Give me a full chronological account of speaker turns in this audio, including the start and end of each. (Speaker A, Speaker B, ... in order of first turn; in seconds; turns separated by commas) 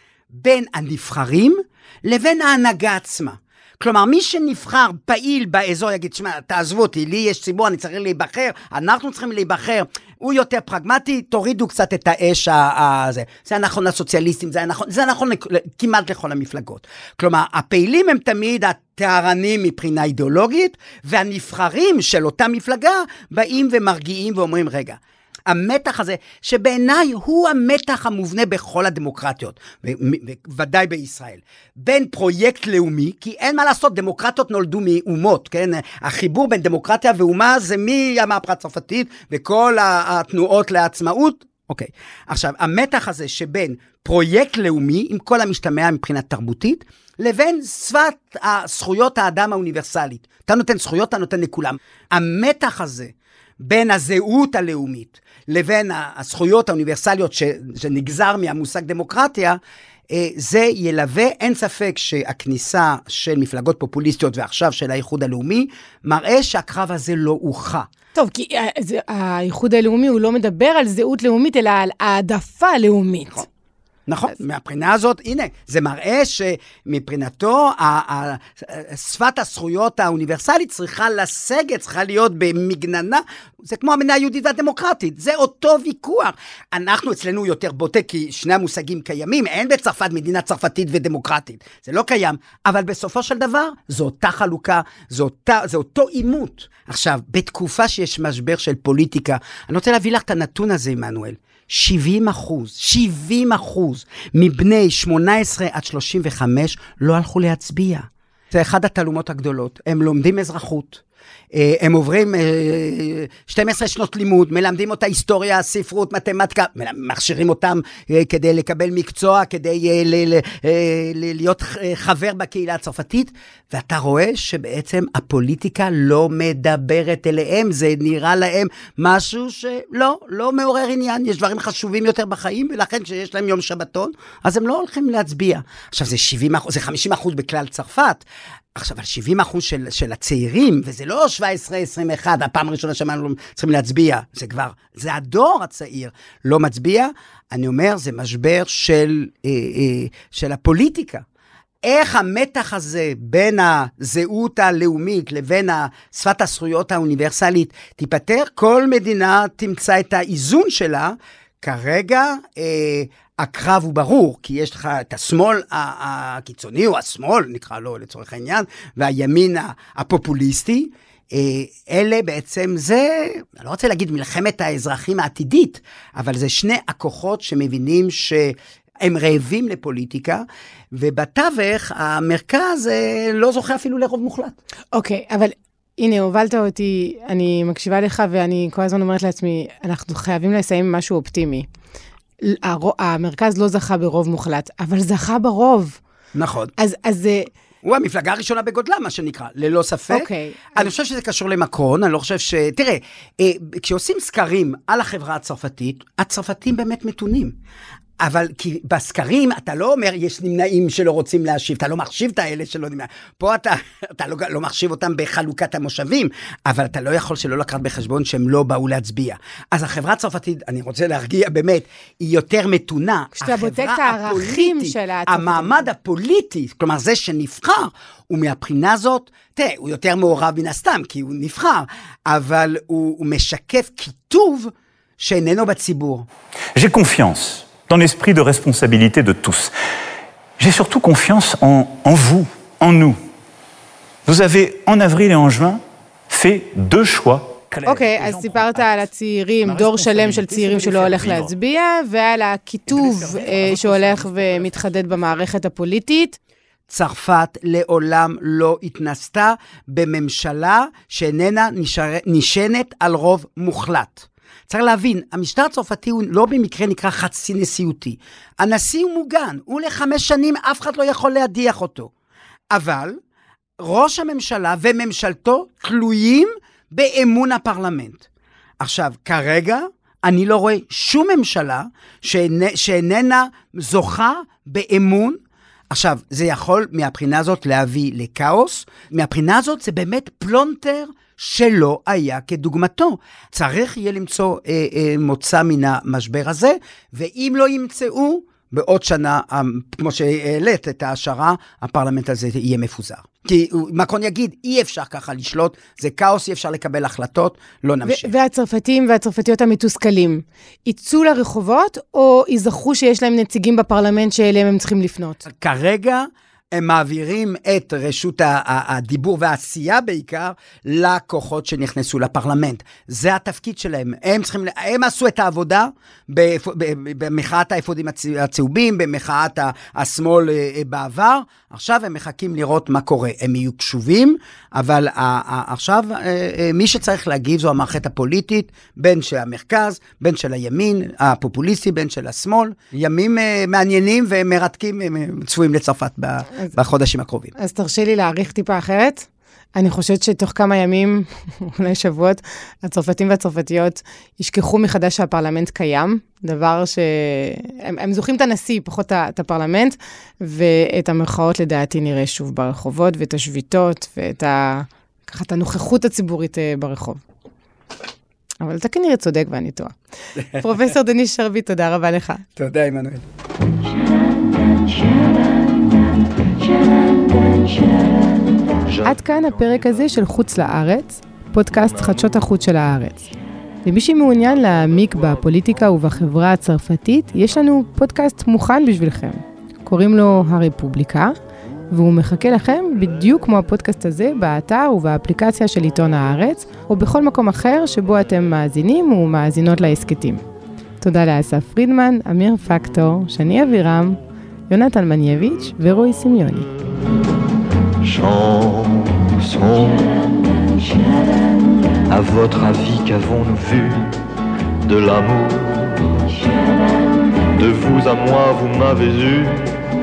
Speaker A: 0.3-67.9, Speaker B: 68.2-73.5, Speaker A: 74.1-111.0, Speaker A: 111.5-138.2, Speaker A: 138.8-151.2, Speaker A: 151.8-184.6, Speaker B: 184.9-191.7, Speaker B: 192.4-196.0, Speaker A: 196.3-196.7, Speaker B: 196.8-197.5, Speaker A: 197.8-207.6, Speaker B: 200.1-200.9, Speaker A: 208.2-236.3, Speaker B: 223.4-225.9, Speaker C: 236.8-239.7, Speaker C: 240.6-243.2, Speaker C: 244.3-249.0, Speaker B: 247.8-256.4, Speaker C: 249.7-251.5, Speaker C: 252.9-255.2, Speaker A: 256.9-272.1, Speaker A: 272.7-273.2, Speaker A: 273.8-278.2, Speaker A: 278.8-308.3, Speaker B: 308.1-315.4, Speaker A: 315.4-347.6, Speaker B: 347.6-367.2, Speaker B: 368.6-369.9, Speaker B: 370.4-372.4, Speaker A: 372.6-373.2, Speaker D: 378.9-380.0, Speaker B: 379.0-383.3, Speaker B: 383.9-391.4, Speaker B: 391.9-400.4, Speaker B: 401.0-406.7, Speaker D: 408.0-410.9, Speaker D: 412.1-414.1, Speaker D: 414.9-416.5, Speaker D: 417.6-419.7